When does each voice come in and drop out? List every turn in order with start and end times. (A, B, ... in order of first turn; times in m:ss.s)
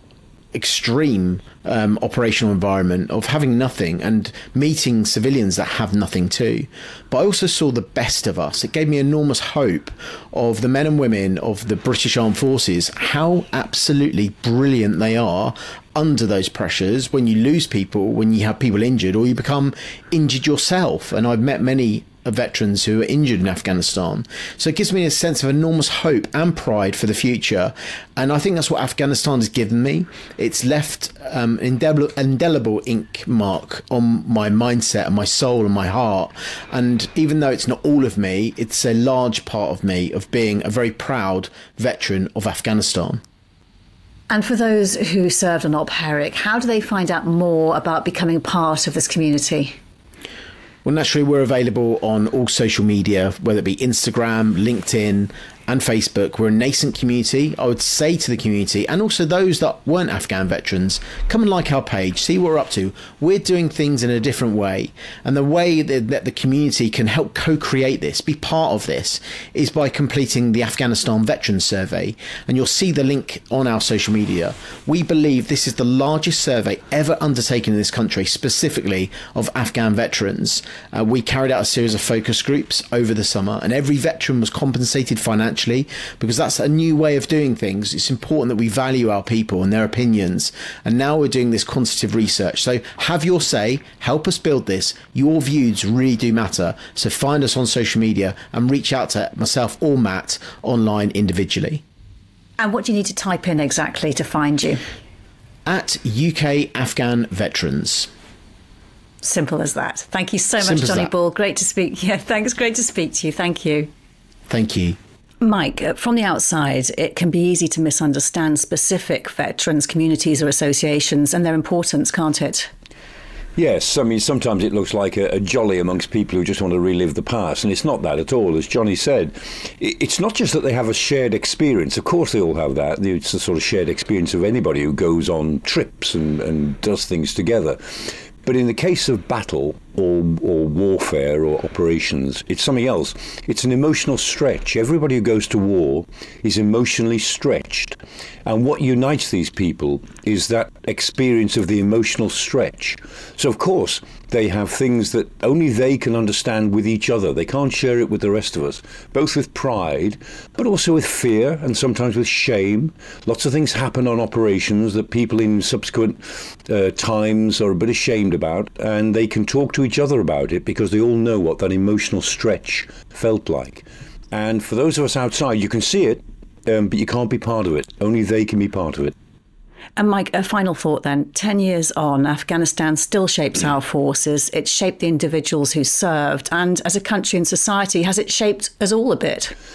0:00.5-0:43.2 A
0:44.3-0:49.8 B
0:50.8-1:41.8 A
1:42.6-1:44.8 B
1:45.7-1:48.1 A
1:49.2-1:53.9 B
1:50.6-1:51.1 A
1:54.5-1:55.0 A
1:55.4-2:02.7 B
2:03.6-2:59.1 C
3:00.0-3:09.6 B